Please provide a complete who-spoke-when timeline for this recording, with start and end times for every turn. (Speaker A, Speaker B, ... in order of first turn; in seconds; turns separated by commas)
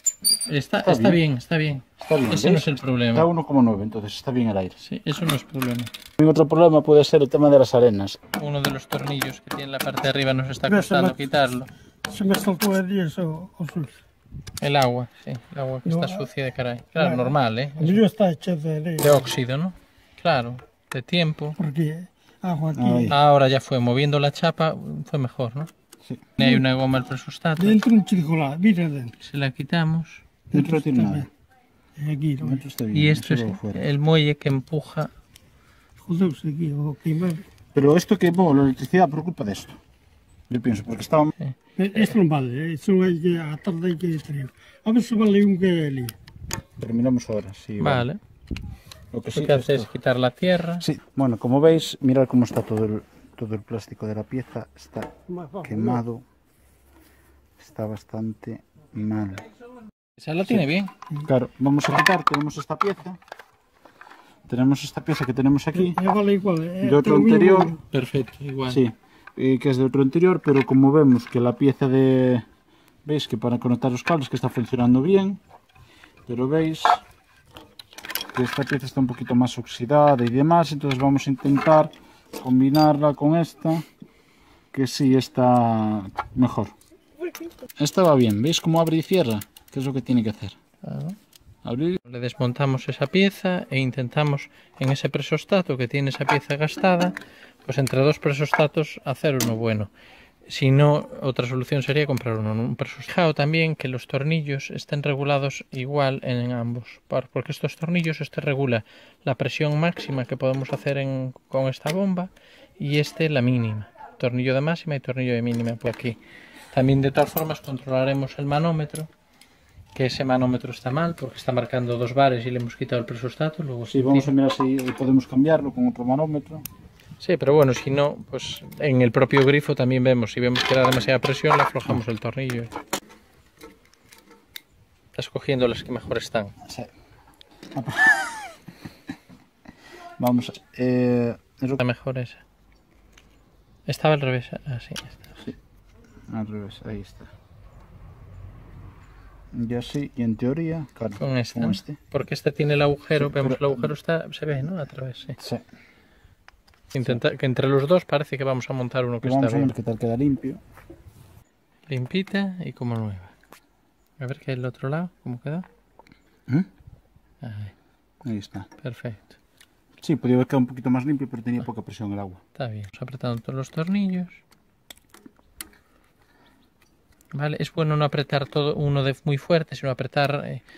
Speaker A: 0.5-3.3, Speaker B: 0.8-1.2, Speaker B: 2.0-4.8, Speaker A: 4.8-5.9, Speaker B: 6.2-8.2, Speaker A: 8.4-11.7, Speaker C: 10.7-11.2, Speaker C: 12.1-14.0, Speaker A: 14.6-18.0, Speaker C: 15.8-16.3, Speaker C: 17.0-19.3, Speaker A: 19.0-21.6, Speaker C: 21.6-23.2, Speaker B: 22.7-23.2, Speaker A: 23.1-25.7, Speaker A: 26.4-27.8, Speaker C: 27.6-29.2, Speaker A: 29.2-30.2, Speaker C: 30.5-31.3, Speaker B: 30.5-31.3, Speaker C: 31.9-32.6, Speaker B: 32.4-33.8, Speaker A: 32.9-35.1, Speaker C: 36.0-37.4, Speaker B: 37.7-39.8, Speaker B: 40.5-41.3, Speaker A: 41.4-42.1, Speaker C: 41.8-46.2, Speaker B: 46.8-48.0, Speaker A: 47.8-48.2, Speaker B: 49.1-49.9, Speaker A: 49.3-50.8, Speaker B: 50.8-56.2, Speaker C: 55.3-56.0, Speaker B: 57.6-59.5, Speaker A: 60.2-60.9, Speaker B: 61.2-63.2, Speaker B: 64.5-66.0, Speaker C: 65.7-67.8, Speaker B: 66.8-67.7, Speaker A: 67.9-68.8, Speaker B: 68.7-72.5, Speaker B: 73.0-75.4, Speaker B: 76.3-77.0, Speaker B: 78.3-83.8, Speaker B: 84.7-86.7, Speaker B: 87.8-90.5, Speaker A: 90.8-91.2, Speaker B: 91.6-92.0, Speaker A: 92.0-99.9, Speaker A: 100.5-116.2, Speaker A: 116.7-119.1, Speaker A: 119.9-124.3, Speaker B: 123.9-126.6, Speaker A: 127.2-132.7, Speaker A: 135.1-136.5, Speaker B: 136.6-136.9, Speaker B: 137.7-138.5, Speaker B: 140.2-141.8, Speaker A: 141.8-142.4, Speaker A: 143.9-145.4, Speaker B: 146.3-147.3, Speaker B: 149.5-152.0, Speaker A: 151.2-155.4, Speaker B: 153.2-153.9, Speaker A: 156.9-159.7, Speaker B: 159.2-160.6, Speaker A: 161.9-163.3, Speaker A: 164.2-165.7, Speaker A: 167.4-167.7, Speaker B: 168.2-168.7, Speaker A: 168.8-169.3, Speaker B: 170.0-172.4, Speaker A: 172.6-174.4, Speaker A: 177.3-180.6